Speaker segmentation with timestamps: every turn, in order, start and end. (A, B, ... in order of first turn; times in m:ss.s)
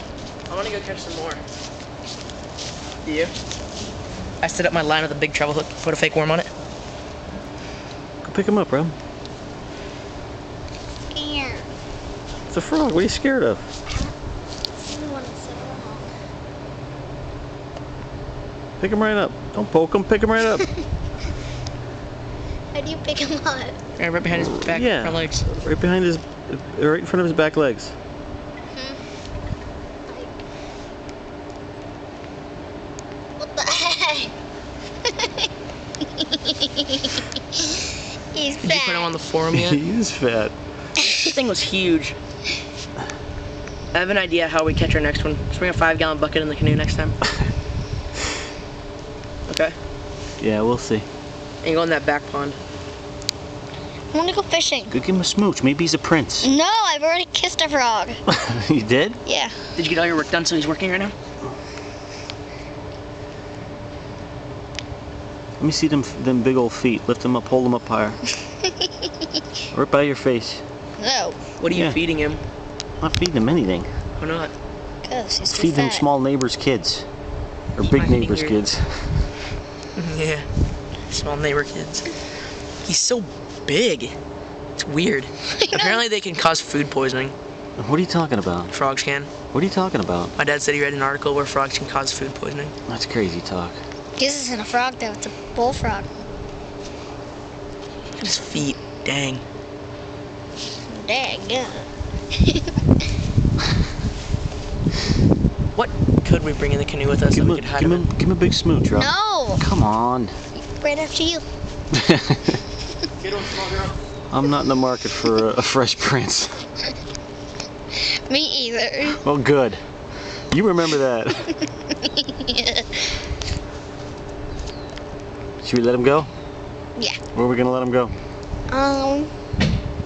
0:00.5-0:01.4 A
0:03.0-0:03.3 A
0:04.4-0:06.5 A
0:08.2-0:08.9 B
0:11.1-0:11.7 C
0:12.5-0:13.6 B
0:14.8-0:16.1 C
0:18.8-0:20.6 B
0:22.7-0:23.8 C
0:24.0-0:25.4 A
0:24.3-0:27.9 B
0:28.7-0:29.0 C
0:33.6-0:34.3 C
0:36.2-0:37.7 C
0:38.3-0:39.1 C
0:38.6-0:39.8 A
0:39.5-0:40.5 B
0:41.2-0:42.2 A
0:43.9-0:47.2 A
0:49.5-0:49.8 A
0:50.4-0:51.0 B
0:51.6-0:52.6 A
0:54.1-0:55.0 C
0:54.9-0:56.5 B
0:56.4-0:58.2 C
0:58.3-0:59.2 B
0:59.2-0:59.5 C
0:59.8-1:01.1 A
1:05.6-1:08.2 B
1:08.6-1:08.9 C
1:09.7-1:10.6 B
1:11.0-1:11.4 C
1:11.6-1:12.4 A
1:11.7-1:12.0 B
1:13.0-1:13.9 B
1:14.2-1:14.5 A
1:15.0-1:16.1 C
1:15.5-1:17.0 B
1:17.8-1:19.0 B
1:17.8-1:18.6 A
1:20.0-1:20.4 A
1:21.1-1:22.1 A
1:22.8-1:24.1 A
1:24.8-1:27.3 A
1:25.6-1:26.0 C
1:27.8-1:28.7 B
1:28.7-1:29.3 A
1:29.5-1:30.3 B
1:30.4-1:32.7 A
1:32.9-1:33.8 B
1:34.2-1:36.1 C
1:38.2-1:39.4 A
1:40.9-1:41.9 C
1:42.4-1:42.7 C
1:45.7-1:48.1 A
1:47.3-1:50.3 B
1:48.9-1:49.6 C
1:50.8-1:51.4 C
1:51.9-1:52.6 B
1:53.2-1:53.9 A
1:54.3-1:56.6 B
1:58.0-1:59.2 C
1:59.1-1:59.8 B
2:00.5-2:01.5 B
2:01.9-2:03.0 C
2:05.6-2:06.3 B
2:07.3-2:08.1 B
2:08.7-2:09.3 C